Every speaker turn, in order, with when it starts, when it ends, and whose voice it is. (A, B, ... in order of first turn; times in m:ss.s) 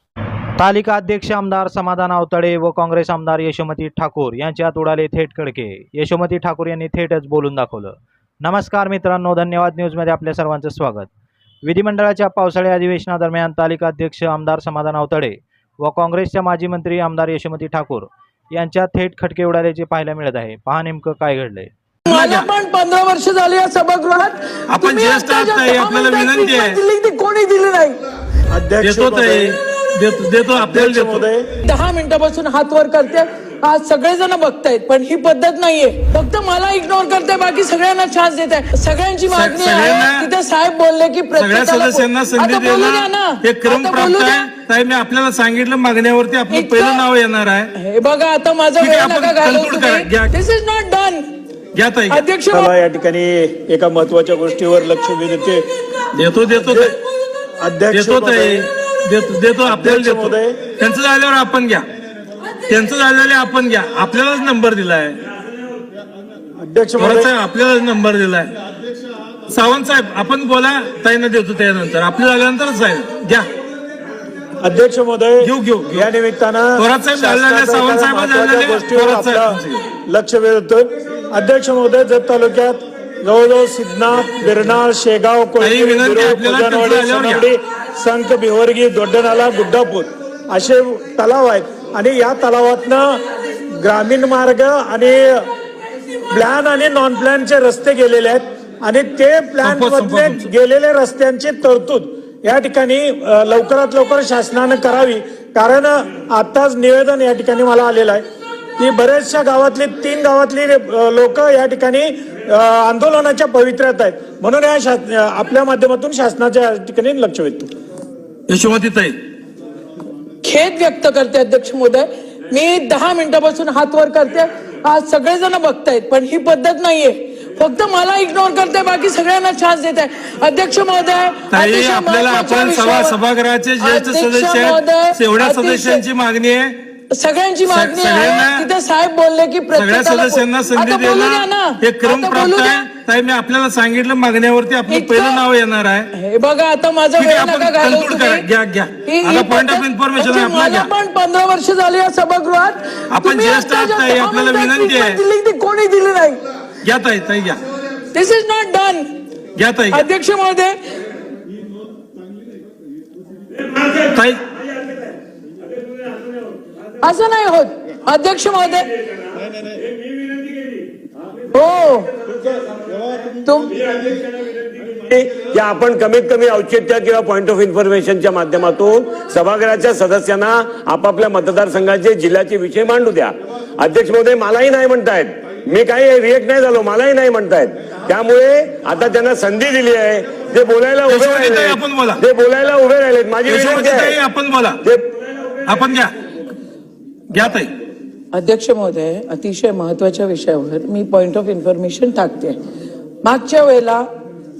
0:00.6-0:11.1 A
0:11.6-0:21.7 A
0:22.1-0:28.0 B
0:22.1-0:22.5 C
0:24.7-0:26.8 C
0:28.5-0:29.6 D
0:28.8-0:31.2 C
0:30.5-0:31.5 D
0:31.6-0:44.4 B
0:39.3-0:40.3 C
0:41.4-0:47.7 C
0:46.5-0:47.0 B
0:47.7-0:51.2 B
0:48.8-0:50.3 C
0:51.7-0:52.2 C
0:52.1-0:52.7 B
0:52.5-0:55.6 D
0:56.1-0:57.0 C
0:56.5-0:57.0 D
0:57.6-0:58.7 D
0:57.9-1:01.8 C
0:59.6-1:00.6 D
1:02.7-1:05.2 C
1:06.6-1:07.3 D
1:07.0-1:08.5 C
1:09.5-1:13.5 C
1:14.6-1:33.2 D
1:15.4-1:16.1 C
1:16.8-1:19.9 C
1:25.6-1:27.5 C
1:33.8-1:35.5 D
1:36.3-1:48.2 D
1:39.6-1:40.5 C
1:48.8-1:57.7 D
1:58.5-1:59.2 C
2:00.4-2:13.2 B
2:11.5-2:16.8 C
2:13.8-2:16.0 B
2:17.1-2:22.8 B
2:17.7-2:18.6 C
2:19.7-2:26.1 C
2:24.9-2:25.4 B
2:26.1-2:28.4 B
2:27.2-2:30.9 C
2:29.0-2:36.4 B
2:33.1-2:35.2 C
2:36.8-2:37.6 C
2:38.1-2:39.1 B
2:39.6-2:40.0 C
2:39.9-2:40.8 B
2:43.9-2:44.4 C
2:47.0-2:48.9 B
2:51.5-2:52.1 B
2:53.4-2:53.7 B
2:54.8-3:14.2 E
3:11.0-3:12.2 C
3:13.4-3:14.8 C
3:14.8-3:15.1 E
3:15.6-3:16.1 C
3:17.3-3:17.7 C
3:18.3-3:22.6 B
3:23.2-3:24.1 B